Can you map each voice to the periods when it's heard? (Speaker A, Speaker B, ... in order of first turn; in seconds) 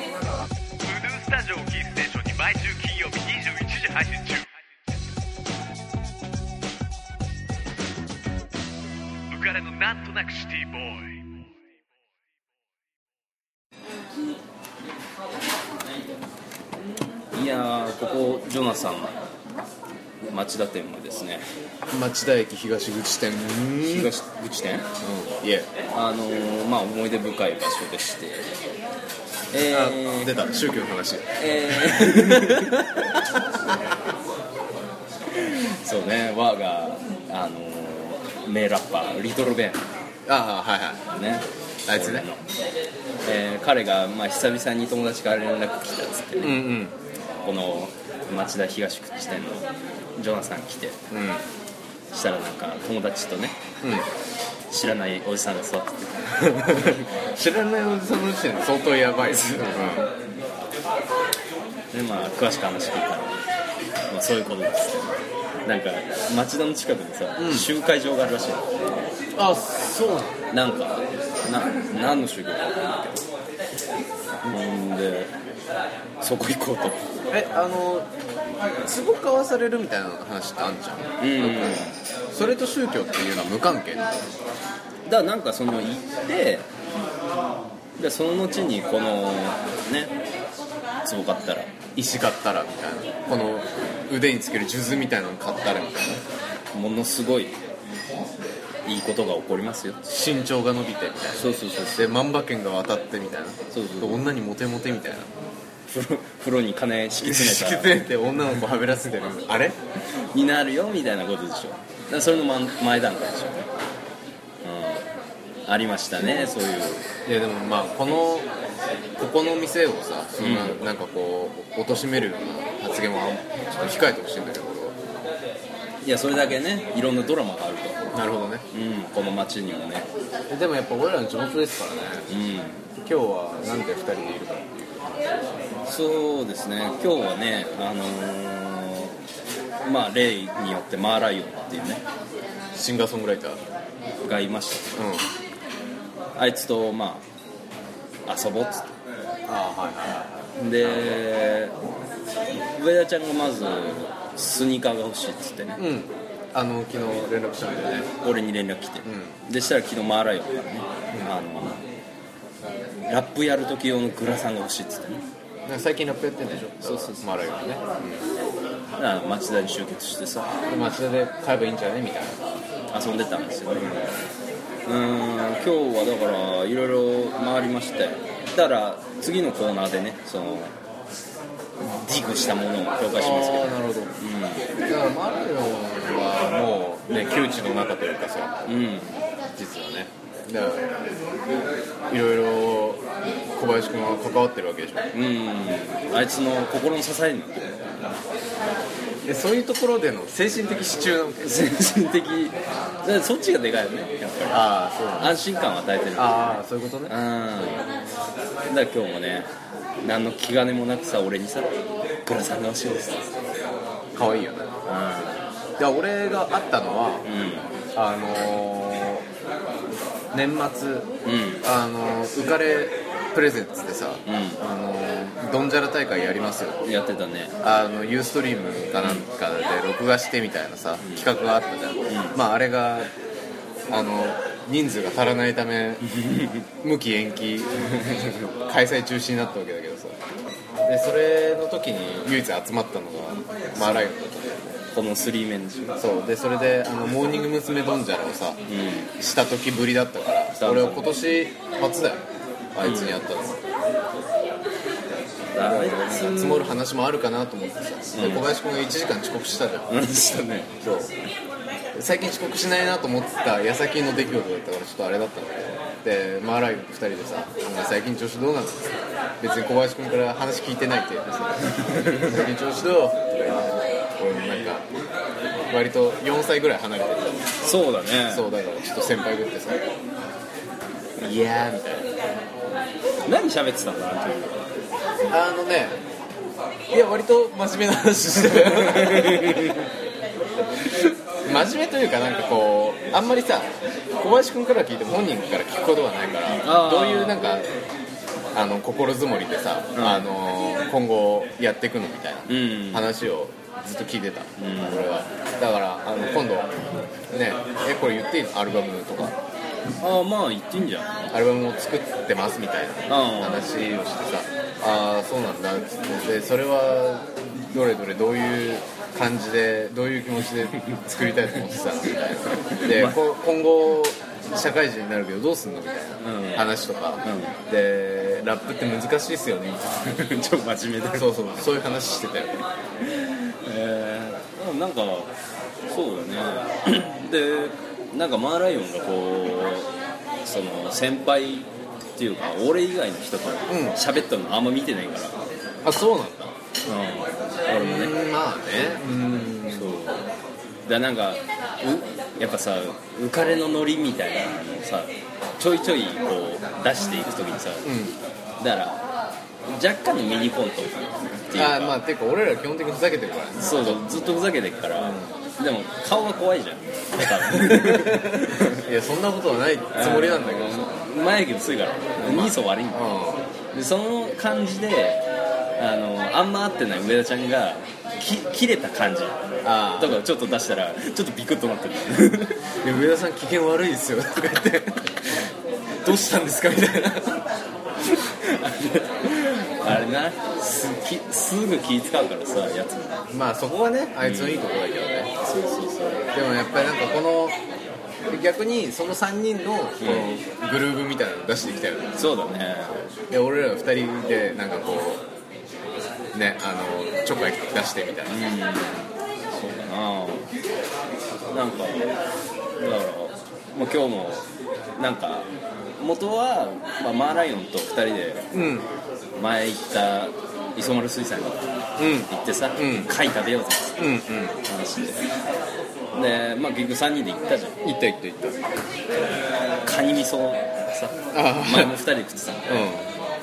Speaker A: 0.8-4.5, 9.3-11.2
Speaker B: 17.3-19.2, 20.2-21.4, 23.8-24.9, 25.9-28.5, 29.5-30.4, 31.4-33.1, 35.3-39.9, 41.1-42.4, 43.2-46.7, 47.4-49.6, 50.2-51.0, 52.1-53.6, 54.7-57.0, 59.3-60.0, 61.9-63.4, 64.1-65.1, 65.7-69.1, 70.5-73.2, 74.5-75.3, 76.2-77.0, 81.2-82.0, 85.1-86.7, 88.0-90.1, 91.0-91.7, 96.7-97.6, 98.9-100.0, 101.3-102.2, 103.7-104.2, 105.9-108.0, 110.3-113.7, 114.6-115.0, 115.7-117.0, 120.4-120.8, 126.0-128.1, 128.7-130.1, 132.3-132.8, 135.9-139.2, 139.8-142.0, 144.2-144.9, 146.4-147.2, 148.3-149.0, 150.6-151.8, 152.7-155.8, 158.2-161.8, 163.1-165.2, 166.8-167.3, 169.0-170.7, 172.9-174.2, 174.9-180.7, 181.8-184.7, 188.7-189.2, 195.1-198.0, 201.4-207.9, 208.7-209.5, 210.0-213.4, 214.8-215.5, 217.2-217.7, 221.2-221.6, 224.3-224.6, 226.8-227.6, 231.0-231.3, 232.1-232.4, 236.0-236.7, 237.8-238.5, 243.8-244.1, 244.9-246.0, 248.7-249.1, 250.6-251.2, 252.8-253.2, 255.5-256.8, 258.1-258.5, 259.9-260.8, 271.7-272.4, 277.6-278.5, 283.3-284.6, 288.6-289.8, 296.6-297.4, 299.9-300.3, 302.5-303.1, 304.6-305.1, 310.0-311.4, 313.1-313.7, 320.8-321.2, 322.5-323.2, 326.2-327.6, 330.0-331.3, 333.1-335.3, 335.9-339.9, 340.4-345.4, 346.9-348.1, 349.7-350.2, 350.9-357.9, 358.6-359.1, 359.7-362.0, 363.6-368.8, 369.9-373.1, 373.7-375.2, 375.8-379.4, 380.0-382.7, 388.1-393.2, 394.2-394.7, 395.4-396.3, 400.0-400.3, 402.2-403.0, 408.3-410.5, 411.5-412.1, 412.8-414.5, 415.0-415.5, 416.0-418.5, 419.4-421.7, 422.3-425.2, 426.1-427.8, 429.8-432.9
Speaker C: 21.9-24.1, 25.0-25.7, 29.7-33.9, 40.3-41.0, 41.9-42.2, 46.4-47.0, 51.1-51.4, 53.8-54.1, 56.4-60.1, 67.4-67.7, 69.3-70.4, 77.3-78.1, 78.8-84.1, 92.0-96.2, 100.0-105.3, 107.2-109.8, 117.3-118.5, 119.2-125.0, 128.1-128.7, 130.5-132.3, 133.0-135.0, 142.7-143.6, 144.9-145.3, 149.5-151.2, 155.8-158.1, 159.1-159.4, 165.7-168.3, 170.7-172.5, 183.1-184.1, 184.8-188.6, 189.5-191.1, 192.1-193.0, 193.6-195.1, 199.2-201.6, 204.5-205.4, 206.2-207.2, 214.1-214.7, 215.8-217.3, 217.9-219.3, 220.3-221.1, 221.6-226.8, 227.6-233.1, 233.9-236.1, 236.8-240.2, 240.9-244.8, 246.0-248.6, 249.2-252.2, 252.8-253.6, 255.6-259.9, 260.8-261.1, 261.9-274.9, 275.7-277.5, 278.3-279.8, 281.2-282.1, 285.3-286.0, 286.9-289.8, 291.4-297.7, 298.5-306.7, 307.3-309.4, 311.3-330.2, 331.1-332.5, 343.7-344.0, 345.8-346.6, 347.8-349.9, 357.8-358.2, 361.5-364.2, 365.0-365.3, 367.3-370.9, 372.2-373.4, 379.6-380.2, 382.8-385.4, 386.0-387.5, 393.3-395.3, 396.3-397.6, 398.3-402.3, 403.2-405.2, 406.3-408.5, 418.5-418.9, 422.0-423.1, 424.0-424.6, 427.8-428.6, 431.3-432.0, 432.7-433.1